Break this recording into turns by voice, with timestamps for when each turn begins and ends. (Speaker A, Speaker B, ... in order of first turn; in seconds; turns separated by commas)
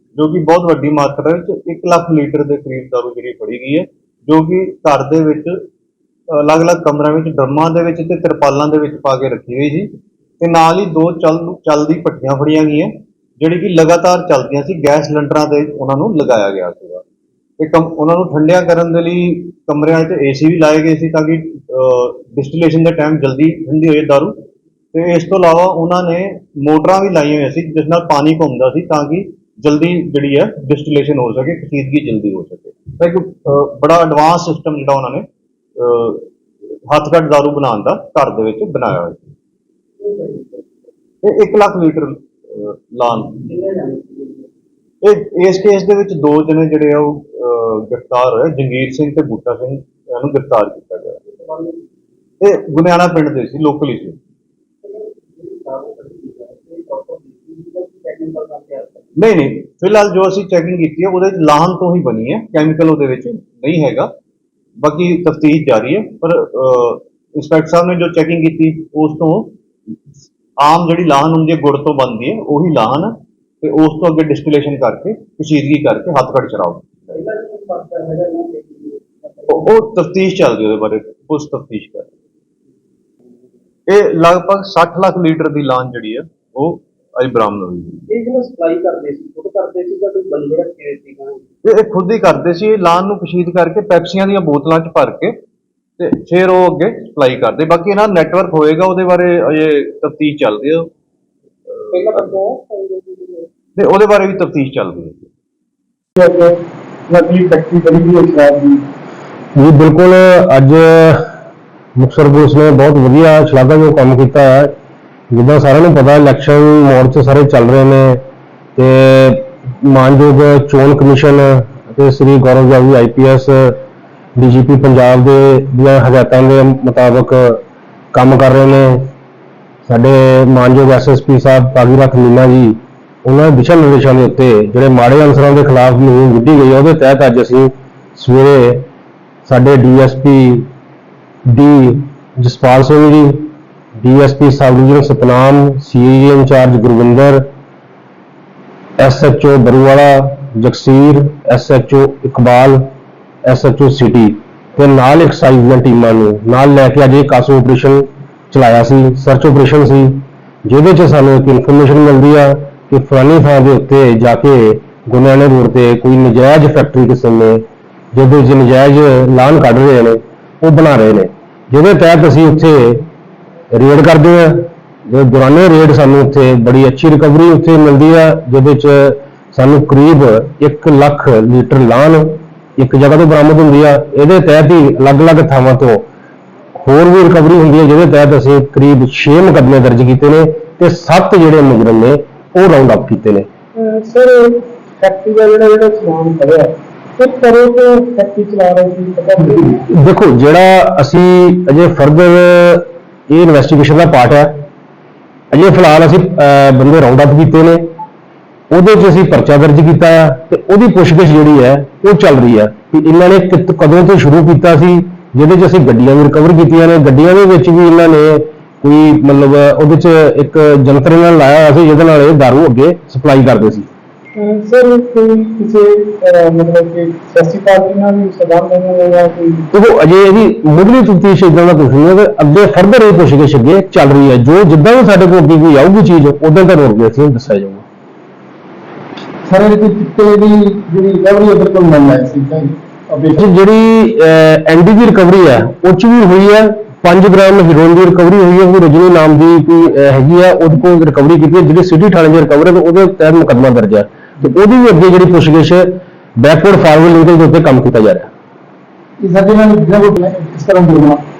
Speaker A: 0.2-5.5, Speaker A: 6.3-17.0, Speaker A: 17.6-24.4, Speaker A: 24.9-36.3, Speaker A: 36.9-39.3, Speaker B: 40.0-40.7, Speaker A: 41.2-43.4, Speaker B: 43.4-44.5, Speaker A: 45.0-51.2, Speaker B: 51.4-51.8, Speaker A: 52.4-54.2, Speaker B: 54.8-59.0, Speaker A: 59.1-64.1, Speaker A: 64.8-69.5, Speaker A: 70.6-77.1, Speaker B: 77.1-79.6, Speaker A: 79.5-82.1, Speaker A: 83.9-88.0, Speaker B: 88.1-91.4, Speaker A: 91.6-95.4, Speaker A: 96.0-100.9, Speaker A: 101.9-102.2, Speaker B: 101.9-103.5, Speaker A: 103.8-105.3, Speaker C: 106.2-108.8, Speaker D: 109.5-111.3, Speaker D: 112.0-114.7, Speaker D: 115.3-118.2, Speaker D: 118.8-123.8, Speaker D: 124.3-127.6, Speaker D: 128.1-129.1, Speaker D: 129.8-138.9, Speaker D: 139.4-140.7, Speaker D: 141.4-147.5, Speaker D: 149.0-152.9, Speaker D: 153.4-167.6, Speaker D: 168.1-173.1, Speaker D: 173.7-186.0, Speaker D: 186.8-193.5, Speaker C: 193.8-199.8, Speaker D: 199.9-204.5, Speaker D: 205.5-207.8, Speaker D: 208.7-223.9, Speaker C: 224.4-229.7, Speaker D: 229.7-237.8, Speaker C: 239.4-243.4, Speaker D: 243.3-258.3, Speaker C: 259.2-261.2